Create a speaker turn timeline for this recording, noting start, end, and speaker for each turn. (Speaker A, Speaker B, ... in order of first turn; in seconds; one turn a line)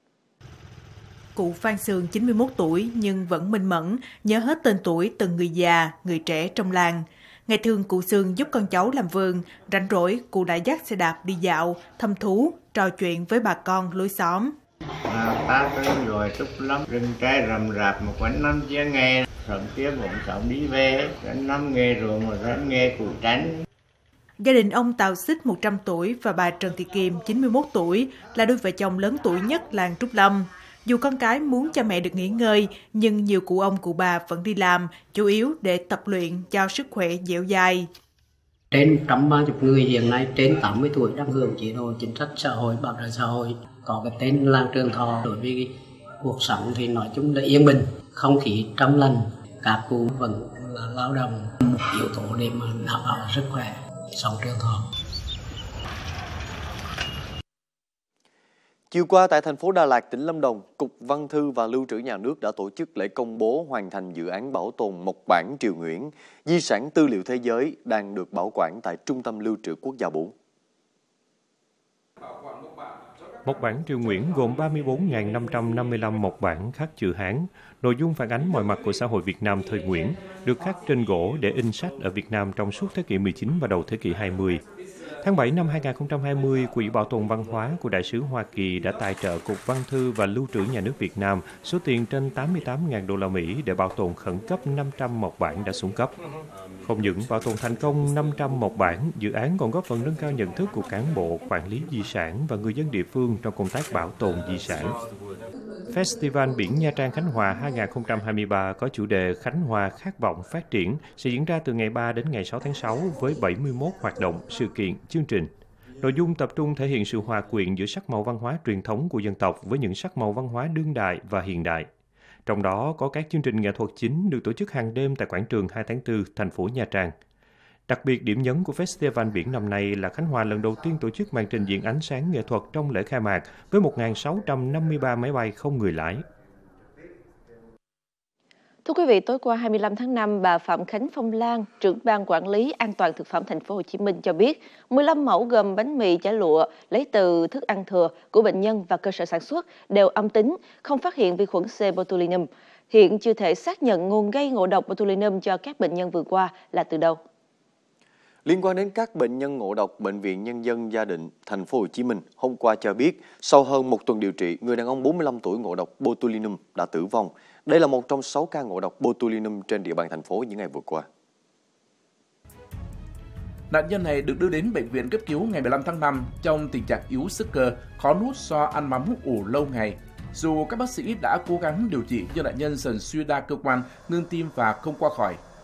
Speaker A: 1.4-14.5
Speaker B: 15.1-23.6
Speaker A: 24.4-37.9
Speaker C: 38.7-54.9
Speaker D: 58.9-70.3
Speaker E: 73.4-84.6
Speaker E: 85.2-96.1
Speaker E: 96.8-105.0
Speaker E: 105.9-115.5
Speaker E: 116.0-121.9
Speaker E: 122.5-127.1
Speaker E: 127.9-136.2
Speaker F: 138.8-157.2
Speaker D: 158.4-171.1
Speaker G: 173.7-185.4